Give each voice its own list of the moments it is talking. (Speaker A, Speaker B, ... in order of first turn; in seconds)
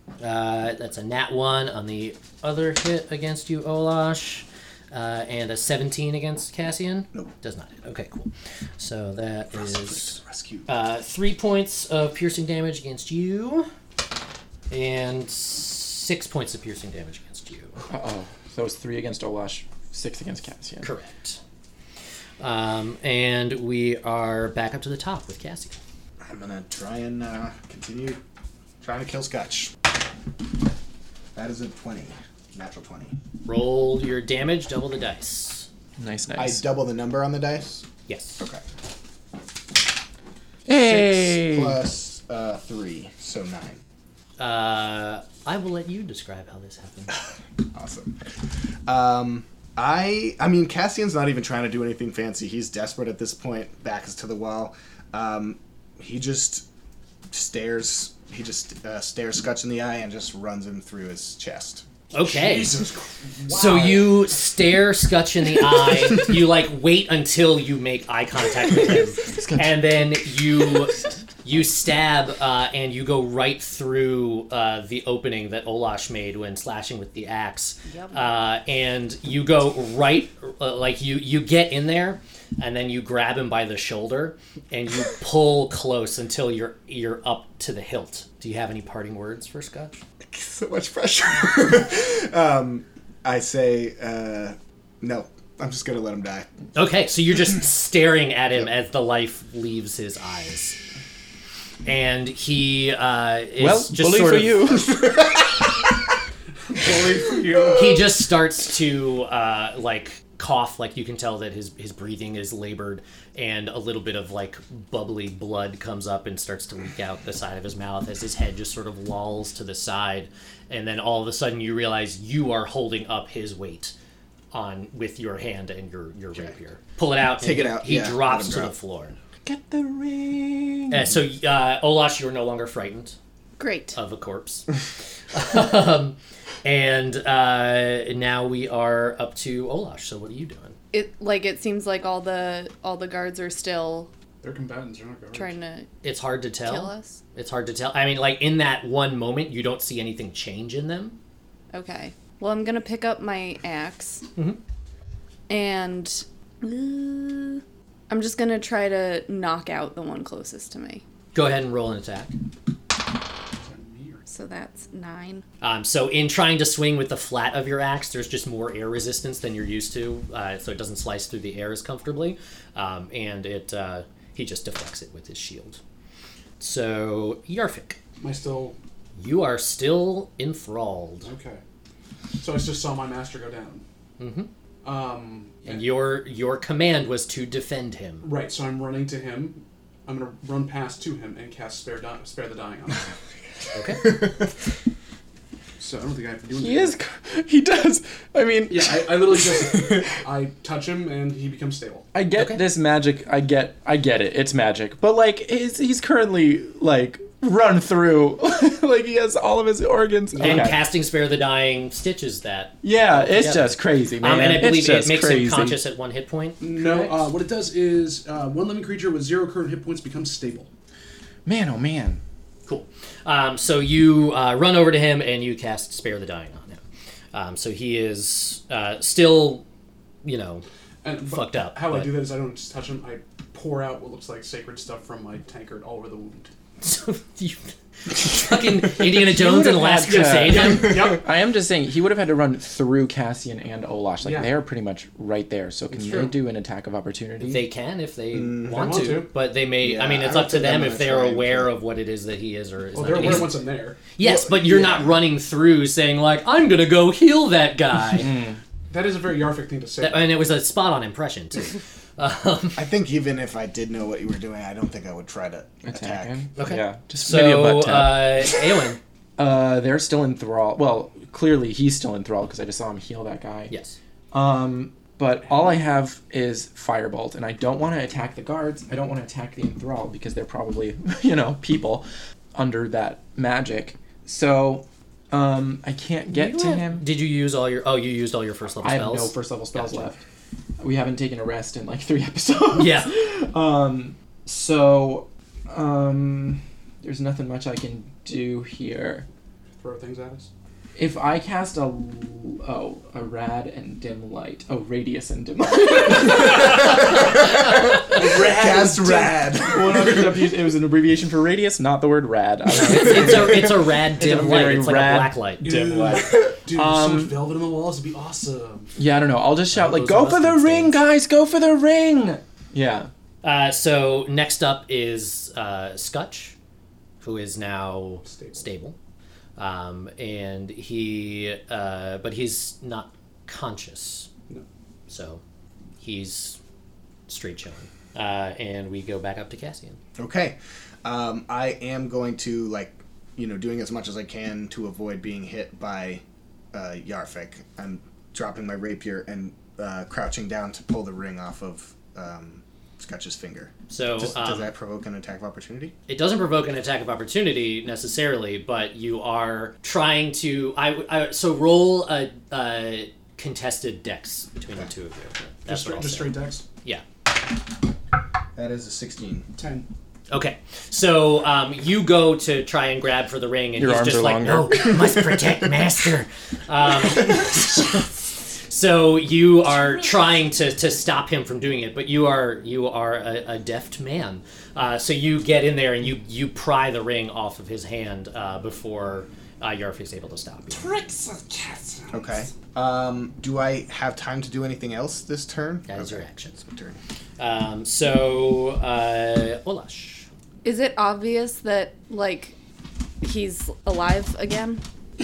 Speaker A: 0.2-13.7, 14.7-17.8, 20.8-21.4, 22.4-25.8, 33.4-35.7, 38.1-38.5, 44.4-47.1, 62.1-62.8, 63.5-90.0, 96.7-100.8, 101.8-104.8, 107.7-123.9, 124.5-129.2, 130.9-133.2, 133.9-134.7, 135.3-140.8, 146.0-151.2, 161.3-162.3, 165.6-175.8, 176.6-178.0, 179.2-181.3, 184.2-184.5, 185.7-188.3, 193.7-194.1, 202.3-202.6, 210.3-217.2, 222.7-226.8, 227.3-229.6, 230.2-230.6, 231.2-232.1, 236.8-241.1, 247.4-258.3, 260.0-262.8, 266.6-269.0, 273.7-274.0, 286.3-290.1, 292.7-293.1, 312.7-315.7, 319.7-321.0, 323.4-326.5, 327.2-328.9, 329.6-334.3, 335.1-335.4, 336.0-336.6, 337.3-340.0, 353.9-354.7, 356.1-367.0, 370.3-390.9, 395.9-396.6, 397.4-400.3
Speaker B: 9.5-10.7, 26.2-28.2, 28.8-29.7, 31.3-33.1, 36.4-37.8, 40.7-43.8, 47.7-48.2, 48.9-56.6, 57.3-61.8, 90.2-96.5, 104.9-105.7, 107.5-107.8, 127.4-128.7, 194.1-194.4, 248.3-249.2, 249.8-251.7, 254.2-255.1, 262.8-266.4, 308.1-310.5, 340.1-346.2, 346.7-355.9, 368.5-369.5, 392.1-397.0
Speaker C: 17.9-20.9, 36.0-36.6, 40.7-41.8, 69.2-69.9, 103.6-104.9, 129.4-131.0, 196.6-199.5, 202.1-210.8, 212.8-215.8, 221.4-222.2, 239.2-247.6, 258.2-258.6, 265.8-268.5, 269.4-273.7, 274.3-287.0, 288.8-290.2, 290.8-299.2, 300.9-307.1, 309.7-317.4, 319.0-323.1, 373.8-375.2
Speaker D: 62.2-64.2, 106.7-108.0, 144.4-145.6, 163.5-164.2, 178.2-178.8, 181.2-181.6, 182.4-183.8, 184.8-185.8, 188.2-193.1, 195.8-197.0, 198.7-202.1, 210.3-210.7, 216.6-220.7, 231.0-236.5, 240.1-241.2, 244.2-244.6, 245.9-246.3, 248.7-249.3, 252.9-254.1, 258.9-260.3, 299.8-300.5, 308.1-309.5, 315.6-318.9, 328.2-328.6, 365.6-366.6, 369.6-369.9, 390.7-392.5
Speaker E: 77.9-78.2, 133.6-134.0, 140.9-144.1, 145.3-145.9, 146.6-147.2, 151.7-154.2, 155.5-161.0, 164.3-165.4, 400.6-402.6, 403.2-404.8